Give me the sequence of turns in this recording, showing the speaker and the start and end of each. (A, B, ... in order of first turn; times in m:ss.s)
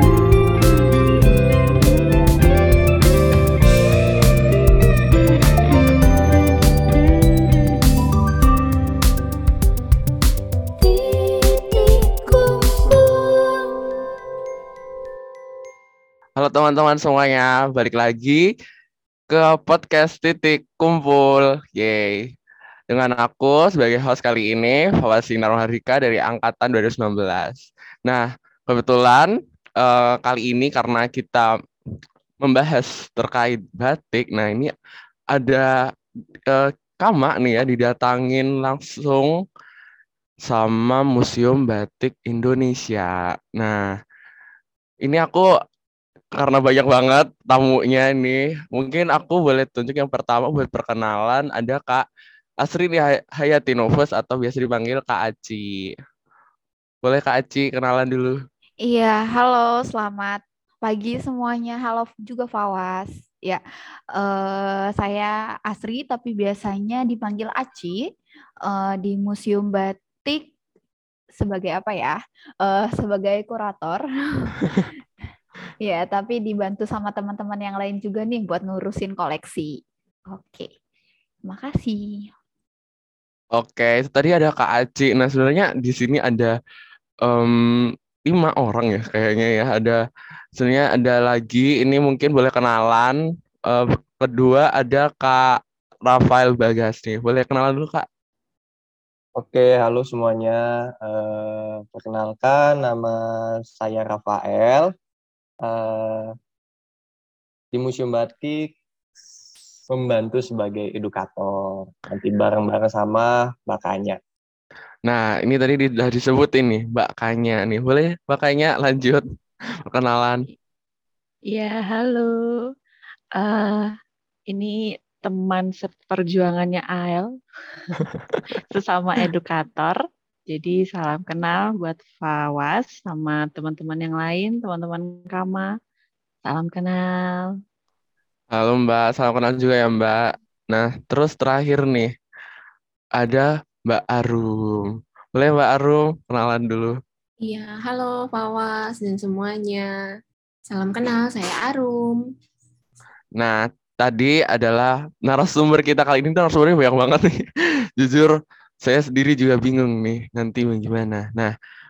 0:11.0-0:12.8 A
0:16.4-0:18.5 B
0:19.3-0:22.3 B
0:22.9-0:31.5 B
0:32.4-0:34.7 B
0:35.3-0:35.9 B
0:36.5-0:39.4 B
0:40.4-0:43.9 B
0:45.0-0:45.5 B
0:46.4-0:52.0 B
0:52.6-0:55.9 B
0:57.0-0:58.4 B
0:58.8-1:03.6 A
1:04.1-1:08.1 A
1:08.6-1:10.5 A
1:11.4-1:14.9 A
1:15.8-1:20.7 A
1:21.4-1:22.3 A
1:23.5-1:26.6 B
1:27.2-1:30.0 B
1:30.6-1:38.1 B
1:39.4-1:44.9 C
1:45.6-1:46.3 C
1:47.7-1:48.7 C
1:49.9-1:54.2 C
1:55.0-1:59.2 B
1:59.9-2:00.5 B
2:01.5-2:02.7 D
2:03.4-2:03.9 D
2:04.5-2:10.0 D
2:10.5-2:15.7 D
2:16.5-2:17.5 D
2:18.5-2:22.1 B
2:23.2-2:27.0 B
2:27.4-2:29.9 E
2:30.7-2:32.2 E
2:33.4-2:37.4 B
2:38.0-2:41.5 B